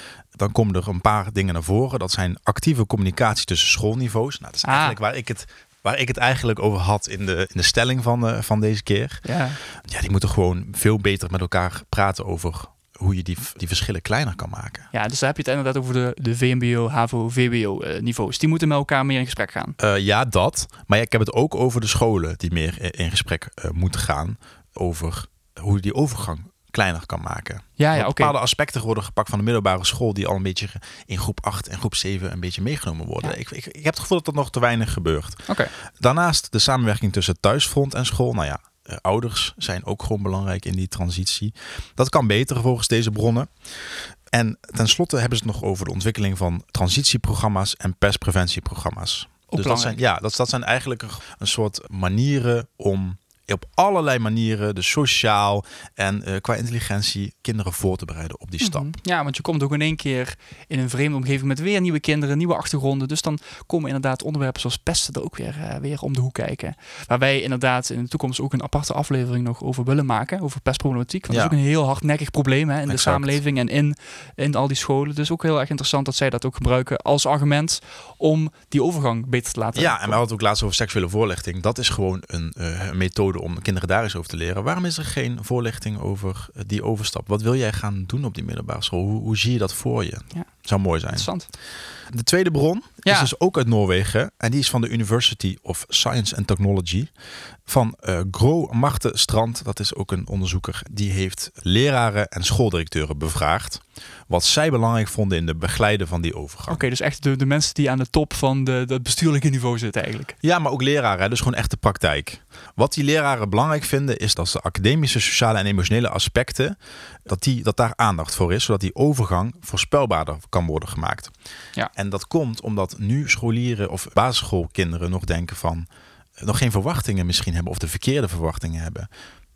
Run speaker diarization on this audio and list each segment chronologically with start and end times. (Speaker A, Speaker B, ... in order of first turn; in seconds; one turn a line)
Speaker A: 0.3-14.9
Speaker B: 4.6-5.0
Speaker B: 9.2-9.6
Speaker B: 14.9-19.8
Speaker A: 19.8-59.0
Speaker B: 27.8-28.3
Speaker B: 49.5-50.0
Speaker B: 58.6-80.2
Speaker A: 71.3-71.5
Speaker A: 72.9-73.4
Speaker A: 79.7-97.1
Speaker B: 90.3-91.5
Speaker B: 93.0-93.3
Speaker A: 97.7-106.8
Speaker B: 106.7-110.4
Speaker A: 110.4-121.3
Speaker A: 121.9-125.9
Speaker A: 126.4-129.1